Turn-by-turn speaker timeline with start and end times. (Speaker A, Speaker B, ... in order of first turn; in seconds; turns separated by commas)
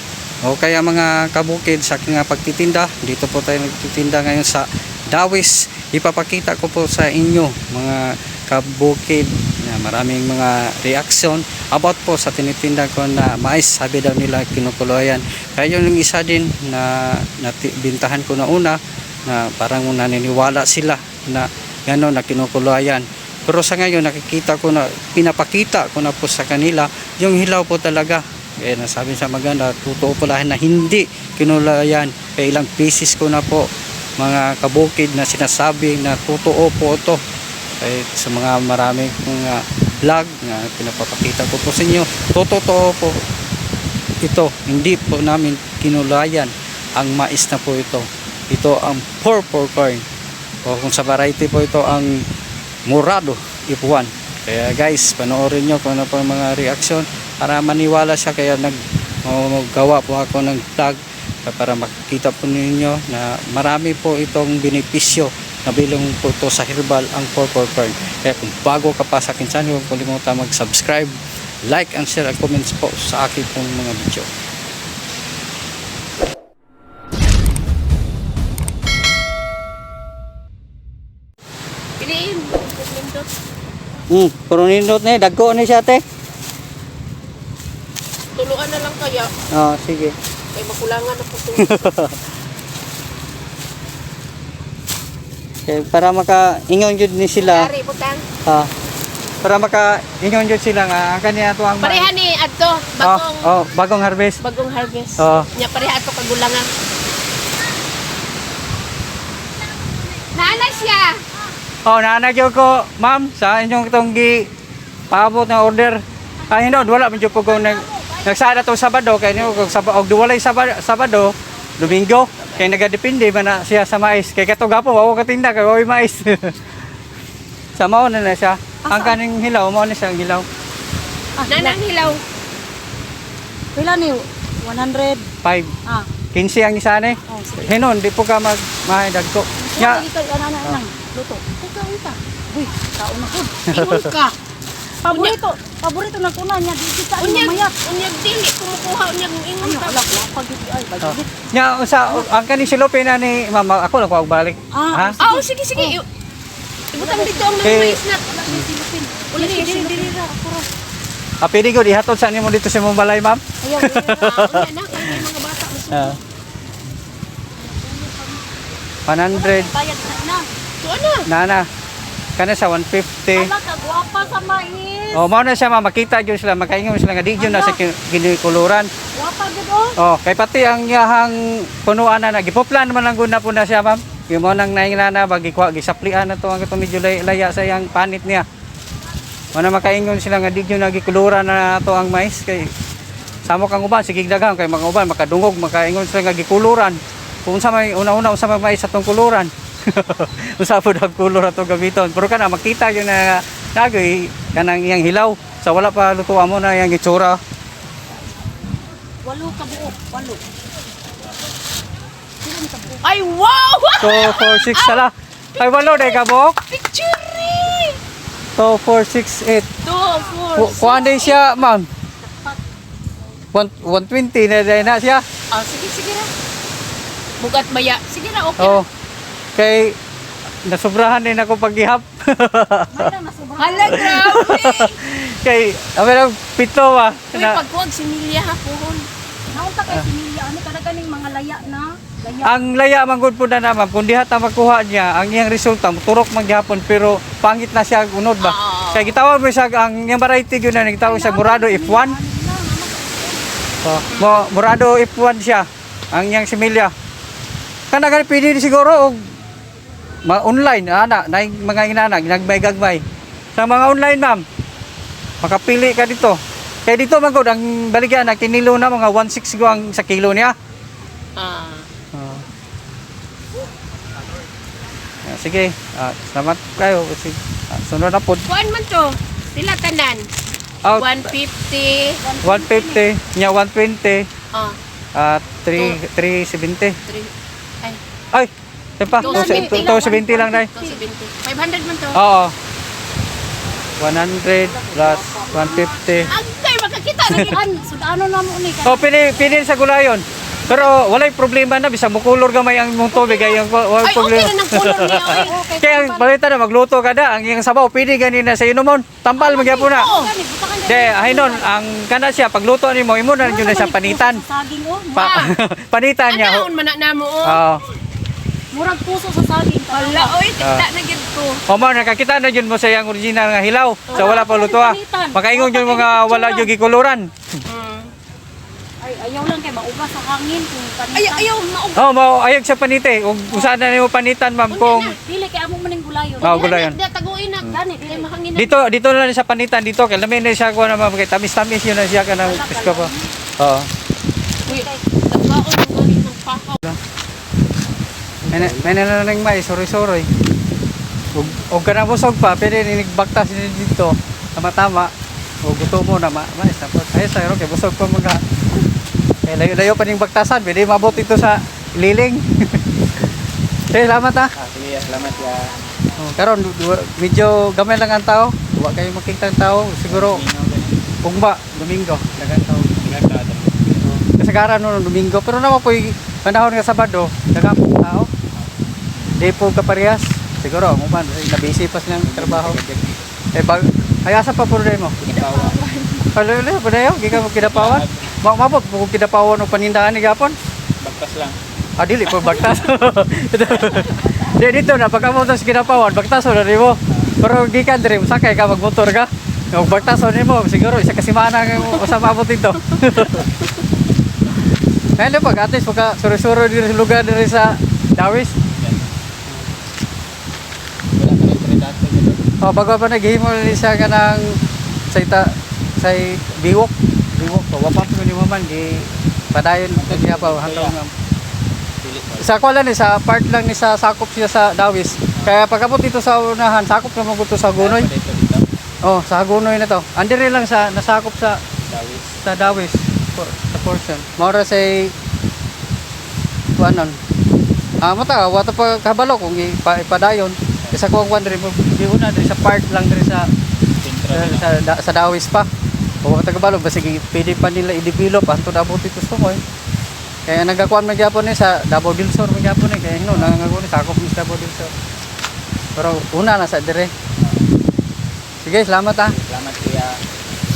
Speaker A: 0.4-37.2, Speaker A: 37.8-43.2, Speaker A: 44.2-50.0, Speaker A: 50.6-52.2, Speaker A: 52.9-74.3, Speaker B: 82.0-83.3, Speaker A: 84.1-86.0, Speaker B: 88.4-89.3, Speaker A: 89.5-90.1, Speaker B: 90.6-92.0, Speaker A: 91.6-92.2, Speaker A: 95.7-97.7, Speaker B: 97.4-98.2, Speaker A: 98.5-98.7, Speaker A: 99.4-102.1, Speaker B: 101.8-103.5, Speaker A: 103.0-104.4, Speaker B: 104.4-106.7, Speaker A: 105.2-105.5, Speaker B: 110.3-111.2, Speaker A: 111.8-114.5, Speaker A: 115.1-126.6, Speaker C: 117.4-118.2, Speaker A: 127.8-130.5, Speaker C: 128.9-129.1, Speaker C: 131.4-131.8, Speaker B: 131.5-132.2, Speaker C: 133.8-135.3, Speaker A: 135.4-135.7, Speaker A: 136.3-140.1, Speaker C: 137.3-137.8, Speaker C: 139.6-141.5, Speaker B: 141.6-142.2, Speaker C: 142.5-144.3, Speaker A: 143.7-144.2, Speaker B: 143.8-144.3, Speaker C: 145.0-147.7, Speaker B: 145.1-145.4, Speaker B: 147.2-150.2, Speaker C: 149.6-151.3, Speaker A: 151.0-155.2, Speaker C: 154.7-156.0, Speaker B: 155.2-156.1, Speaker B: 156.9-158.3, Speaker C: 157.0-157.7, Speaker A: 157.6-158.7, Speaker C: 158.2-160.7, Speaker B: 159.3-160.2, Speaker A: 161.4-165.2, Speaker C: 163.6-164.3, Speaker B: 164.1-166.2, Speaker C: 167.6-168.4, Speaker A: 169.1-169.7, Speaker C: 169.3-170.5, Speaker B: 170.8-171.2, Speaker A: 171.3-171.7, Speaker A: 172.4-173.5, Speaker C: 173.3-175.2, Speaker A: 175.1-178.9, Speaker C: 177.4-177.8, Speaker C: 179.2-180.0, Speaker A: 180.0-188.4, Speaker A: 189.5-192.7, Speaker A: 193.5-207.4, Speaker C: 209.2-210.4, Speaker C: 212.4-213.0, Speaker B: 213.0-215.0, Speaker A: 214.0-216.6, Speaker B: 215.6-218.0, Speaker A: 218.6-219.7, Speaker B: 219.8-221.6, Speaker A: 220.6-221.9, Speaker A: 223.5-225.2, Speaker B: 225.5-226.3, Speaker B: 227.4-228.8, Speaker A: 228.6-228.9, Speaker A: 229.6-230.0, Speaker A: 230.7-233.1, Speaker C: 232.9-234.5, Speaker B: 233.6-235.0, Speaker A: 233.9-237.6, Speaker B: 237.3-239.1, Speaker C: 239.5-242.6, Speaker A: 242.4-252.2, Speaker B: 248.4-249.1, Speaker C: 251.0-253.5, Speaker A: 253.8-256.9, Speaker B: 254.1-254.4, Speaker A: 257.9-259.2, Speaker A: 260.3-263.0, Speaker A: 263.6-264.4, Speaker A: 265.4-270.5, Speaker B: 271.4-271.9, Speaker A: 272.1-272.4, Speaker A: 275.2-278.5, Speaker B: 278.5-280.3, Speaker A: 280.8-281.3, Speaker B: 280.9-282.2, Speaker C: 282.2-283.0, Speaker A: 282.4-284.3, Speaker A: 285.1-287.0, Speaker A: 288.3-290.7, Speaker C: 289.2-290.2, Speaker B: 289.2-292.2, Speaker A: 292.1-292.5, Speaker A: 294.0-296.3, Speaker C: 294.5-296.3, Speaker B: 296.3-297.6, Speaker C: 297.2-299.3, Speaker A: 298.8-310.1, Speaker B: 300.7-300.9, Speaker B: 303.1-305.6, Speaker C: 305.1-306.3, Speaker C: 309.4-311.7, Speaker B: 309.9-310.3, Speaker A: 310.9-314.4, Speaker C: 313.4-315.3, Speaker A: 315.1-316.7, Speaker B: 315.2-315.5, Speaker B: 316.3-317.6, Speaker A: 317.4-317.8, Speaker C: 318.7-320.3, Speaker B: 319.9-321.6, Speaker A: 320.6-320.9, Speaker A: 321.7-327.3, Speaker B: 324.1-324.5, Speaker C: 324.1-326.7, Speaker B: 327.7-328.1, Speaker C: 329.0-331.5, Speaker B: 331.1-332.1, Speaker A: 331.9-335.1, Speaker B: 334.7-335.2, Speaker C: 335.1-336.7, Speaker A: 336.4-337.0, Speaker B: 336.4-338.7, Speaker C: 337.7-338.3, Speaker A: 338.6-343.9, Speaker C: 342.4-343.3, Speaker B: 344.6-346.8, Speaker C: 344.7-345.0, Speaker A: 348.5-350.3, Speaker A: 351.3-355.1, Speaker A: 355.6-358.4, Speaker A: 359.4-362.8, Speaker A: 363.9-364.5, Speaker D: 364.6-365.8, Speaker A: 366.2-370.4, Speaker D: 370.1-371.0, Speaker A: 371.2-372.9, Speaker D: 372.4-374.2, Speaker A: 374.1-378.3, Speaker A: 379.4-382.8, Speaker D: 382.2-383.2, Speaker A: 383.6-385.2, Speaker D: 385.2-386.2, Speaker C: 385.4-385.8, Speaker A: 386.3-390.6, Speaker D: 387.5-388.3, Speaker D: 391.0-391.6, Speaker A: 392.0-403.5, Speaker A: 405.2-408.5, Speaker D: 408.8-409.1, Speaker D: 411.2-412.4, Speaker A: 412.6-414.6, Speaker A: 415.1-421.1, Speaker D: 419.9-421.0, Speaker D: 422.0-422.5, Speaker A: 422.4-428.1, Speaker D: 427.8-428.7, Speaker A: 429.0-431.6, Speaker D: 431.9-432.4, Speaker A: 432.4-435.1, Speaker A: 436.8-437.2, Speaker A: 438.0-443.5, Speaker D: 444.0-444.7, Speaker A: 444.3-445.7, Speaker A: 446.2-449.6, Speaker A: 450.5-454.9, Speaker A: 456.0-457.1, Speaker A: 458.6-459.4, Speaker D: 459.3-460.2